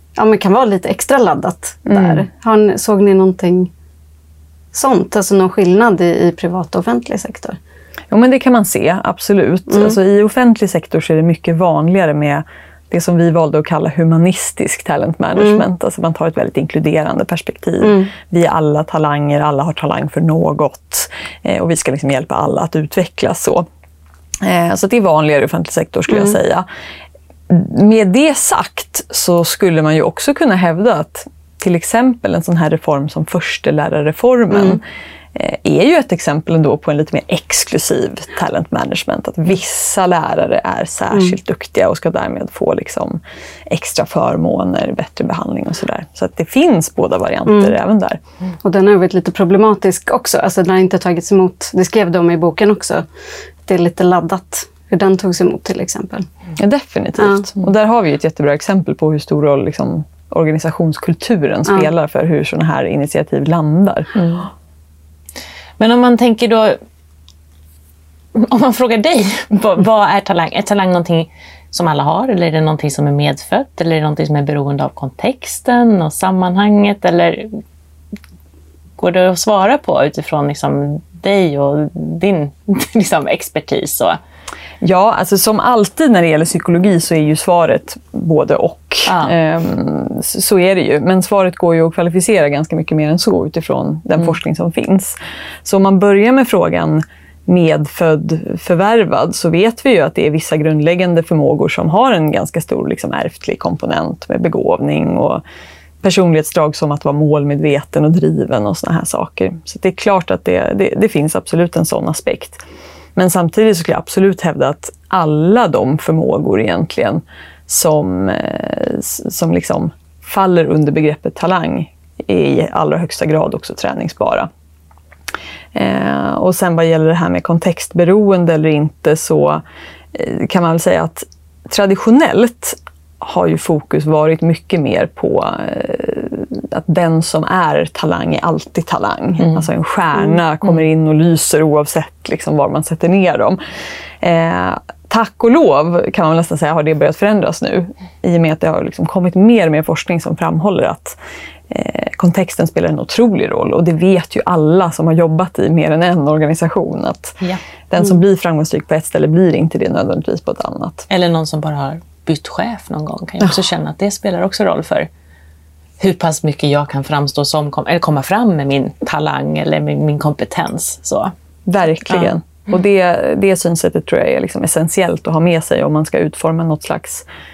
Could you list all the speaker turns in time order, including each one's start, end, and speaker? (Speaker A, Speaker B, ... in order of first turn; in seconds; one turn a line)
Speaker A: 0.2-3.7
Speaker A: 4.7-7.6
Speaker B: 8.1-23.7
Speaker A: 9.7-10.0
Speaker A: 15.4-15.6
Speaker A: 17.8-18.1
Speaker B: 24.4-26.7
Speaker A: 26.1-26.4
Speaker B: 27.5-34.8
Speaker A: 34.5-34.8
Speaker B: 35.4-48.2
Speaker A: 47.5-47.7
Speaker A: 48.6-53.0
Speaker A: 53.7-56.3
Speaker B: 56.6-64.2
Speaker A: 57.2-57.5
Speaker C: 64.2-64.4
Speaker C: 65.8-66.8
Speaker C: 68.3-77.6
Speaker C: 79.0-84.2
Speaker B: 84.8-105.4
Speaker C: 89.1-89.3
Speaker B: 106.0-112.6
Speaker B: 113.2-124.5
Speaker B: 125.8-143.6
Speaker B: 144.2-151.2
Speaker B: 151.7-161.1
Speaker C: 161.1-165.1
Speaker C: 166.0-171.3
Speaker B: 171.7-177.3